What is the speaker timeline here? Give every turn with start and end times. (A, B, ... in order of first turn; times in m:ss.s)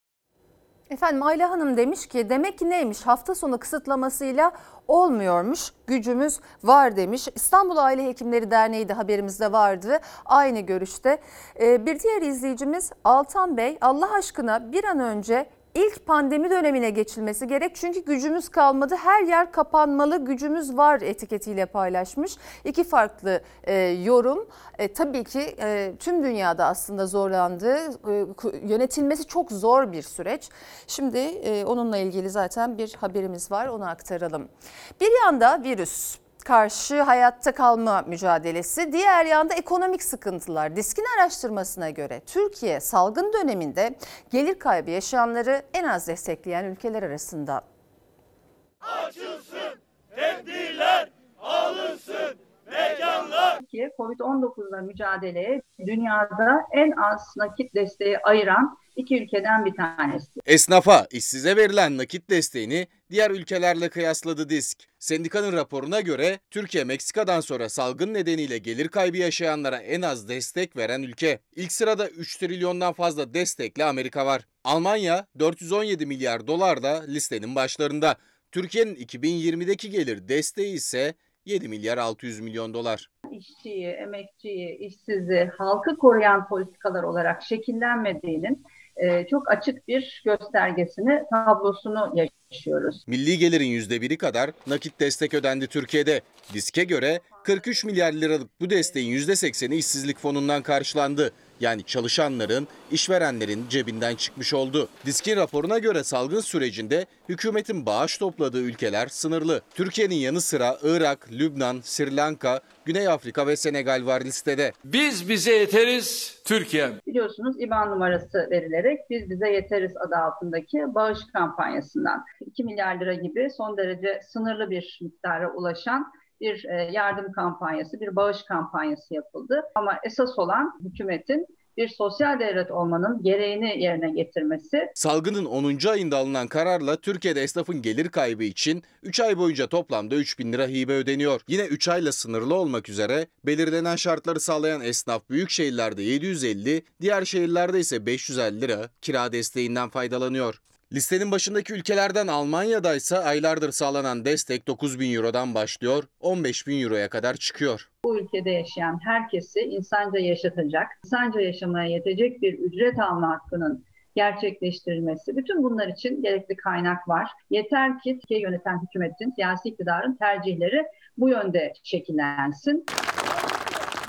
0:00.9-0:47.6 A
0:53.1-1:00.4 B
1:00.4-1:23.1 C
1:23.3-1:33.0 B
1:33.1-1:54.7 C
1:54.9-1:57.0 D
1:57.0-2:14.9 B
2:15.0-2:37.9 C
2:38.0-2:52.8 B